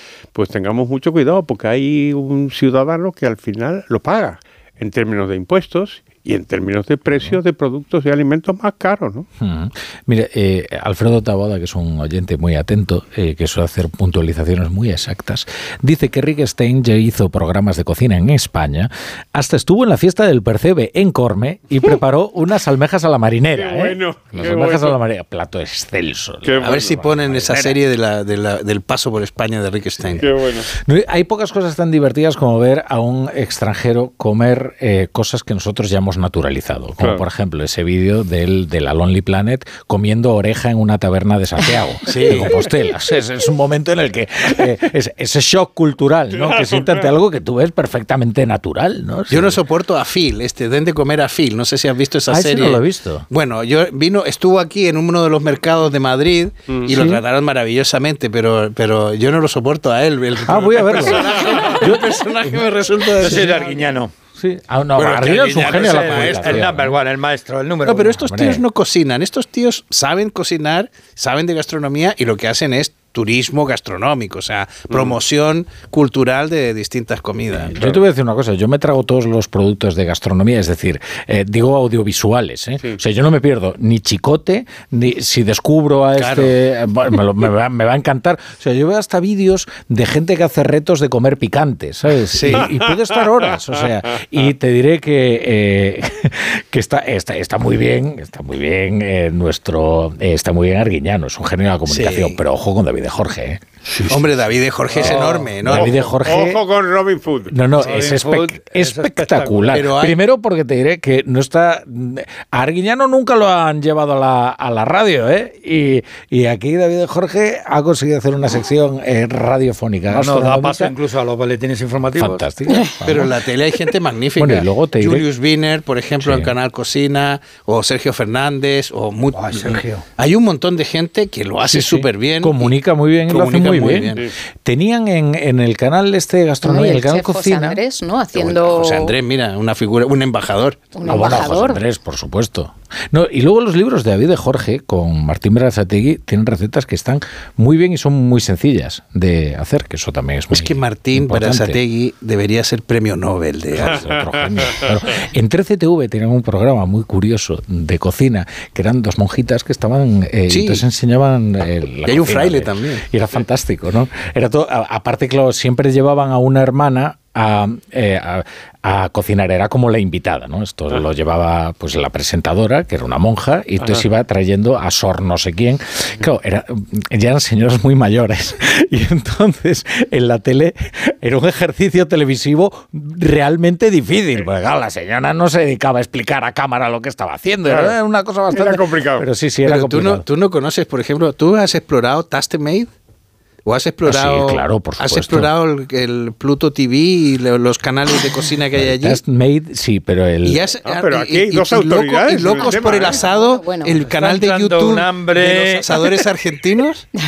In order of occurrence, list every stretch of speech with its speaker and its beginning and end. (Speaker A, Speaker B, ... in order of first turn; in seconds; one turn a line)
Speaker A: 0.3-9.3
Speaker B: 7.1-7.4
Speaker B: 9.4-27.6
Speaker A: 23.5-25.0
Speaker A: 26.4-27.0
Speaker C: 26.6-30.3
Speaker B: 30.1-49.6
Speaker A: 30.2-30.7
Speaker C: 42.0-42.5
Speaker A: 46.3-47.1
Speaker C: 49.3-63.6
Speaker B: 52.3-53.2
Speaker B: 56.9-57.2
Speaker B: 60.5-62.6
Speaker B: 63.2-63.5
Speaker D: 63.2-64.1
Speaker B: 64.4-67.0
Speaker C: 65.0-66.8
Speaker D: 65.6-68.2
Speaker C: 67.8-77.9
Speaker B: 68.0-68.6
Speaker B: 77.7-103.6
Speaker C: 86.2-86.5
Speaker C: 92.3-92.7
Speaker C: 101.9-102.4
Speaker D: 103.8-104.2
Speaker C: 104.1-105.9
Speaker D: 104.9-105.8
Speaker B: 105.0-106.6
Speaker A: 105.7-107.5
Speaker B: 107.5-120.9
Speaker D: 107.8-109.8
Speaker C: 109.7-110.2
Speaker D: 120.1-122.4
Speaker B: 122.1-123.3
Speaker C: 123.0-132.7
Speaker B: 124.4-125.3
Speaker B: 126.2-126.5
Speaker D: 129.3-130.0
Speaker B: 131.6-137.8
Speaker C: 133.3-134.2
Speaker E: 136.6-139.1
Speaker C: 138.5-141.0
Speaker E: 140.9-141.8
Speaker B: 141.0-151.8
Speaker C: 150.5-154.0
Speaker B: 153.7-190.2
Speaker C: 160.5-160.8
Speaker C: 162.1-163.0
Speaker A: 187.7-187.9
Speaker A: 188.5-189.2
Speaker C: 189.7-192.9
Speaker C: 193.6-199.2
Speaker B: 194.0-195.5
Speaker B: 198.7-200.6
Speaker C: 200.4-207.1
Speaker A: 200.8-203.2
Speaker E: 202.5-204.0
Speaker D: 204.1-206.2